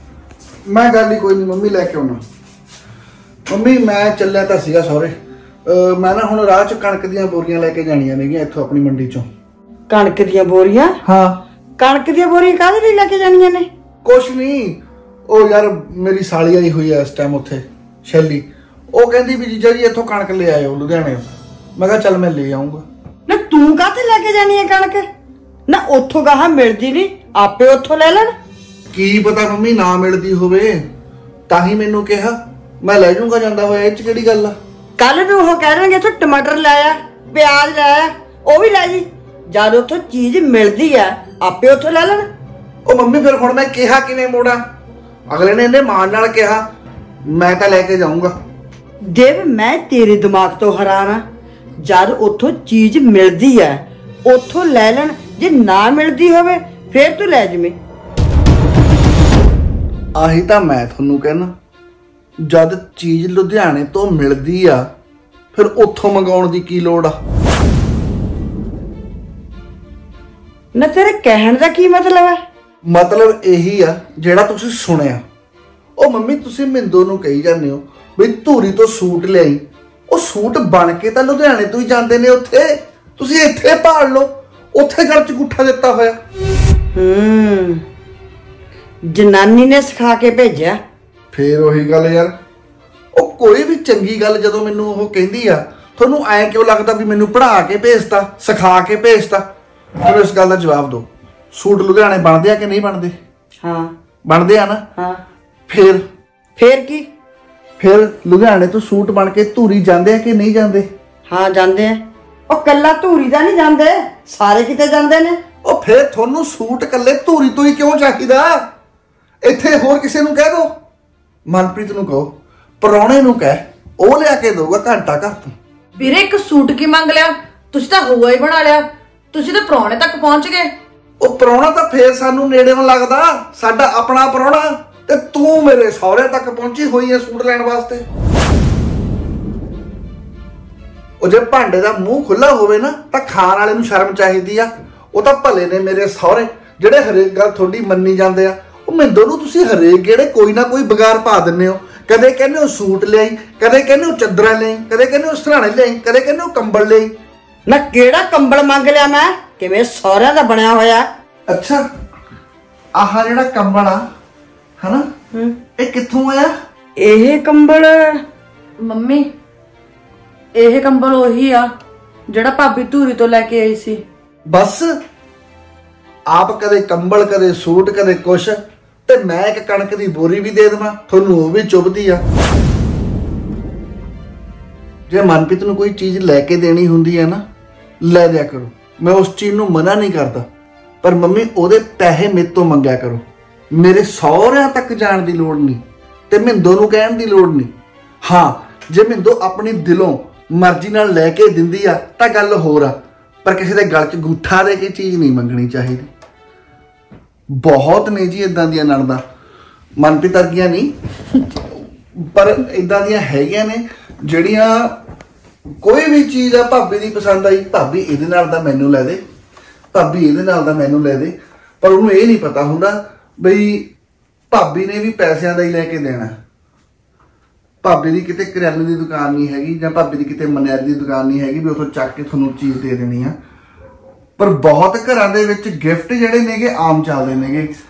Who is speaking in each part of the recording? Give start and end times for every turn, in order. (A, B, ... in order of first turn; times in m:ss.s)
0:00.7-0:02.2 A
0:03.5-0:05.2 A
0:05.7-0:09.3 A
0:09.9-0:11.0 B
0:11.0-0:11.4 A
0:11.8-0:13.7 B
0:14.0-0:21.2 A
0:21.8-0:22.8 A
0:23.3-0:25.1 B
0:25.7-0:28.3 B
0:28.9-0:30.8 A
0:31.5-0:34.6 A
0:35.0-0:42.2 B
0:42.9-0:44.6 A
0:45.3-0:46.6 A
0:47.3-0:48.4 A
0:49.1-0:51.2 B
0:51.8-0:57.8 B
1:00.2-1:01.5 A
1:02.4-1:04.9 A
1:05.5-1:07.2 A
1:10.8-1:12.4 B
1:12.8-1:15.2 A
1:16.0-1:26.2 A
1:27.0-1:27.8 B
1:29.1-1:30.8 B
1:31.3-1:32.3 A
1:33.1-1:39.4 A
1:40.0-1:43.2 A
1:43.6-1:43.9 B
1:44.2-1:44.8 A
1:45.7-1:46.0 A
1:46.6-1:47.1 B
1:47.8-1:50.9 A
1:51.3-1:55.4 B
1:55.6-1:58.6 A
1:59.4-2:00.7 A
2:01.5-2:05.5 A
2:06.0-2:10.7 C
2:11.2-2:18.0 A
2:21.2-2:37.1 A
2:37.7-2:41.1 B
2:41.5-2:41.8 A
2:43.0-2:44.0 A
2:44.8-2:45.1 A
2:45.8-2:46.5 A
2:47.0-2:48.2 B
2:48.8-2:49.2 C
2:50.6-2:51.7 C
2:52.3-2:54.0 C
2:54.5-2:54.9 A
2:56.3-3:02.2 A
3:05.1-3:07.4 A
3:08.0-3:10.4 A
3:11.0-3:17.7 A
3:18.2-3:26.1 A
3:27.6-3:29.2 A
3:30.0-3:30.9 A
3:31.7-3:35.0 A
3:35.8-3:39.2 A
3:39.9-3:43.9 A
3:44.5-3:46.3 A
3:47.8-3:53.4 A
3:54.4-3:57.7 A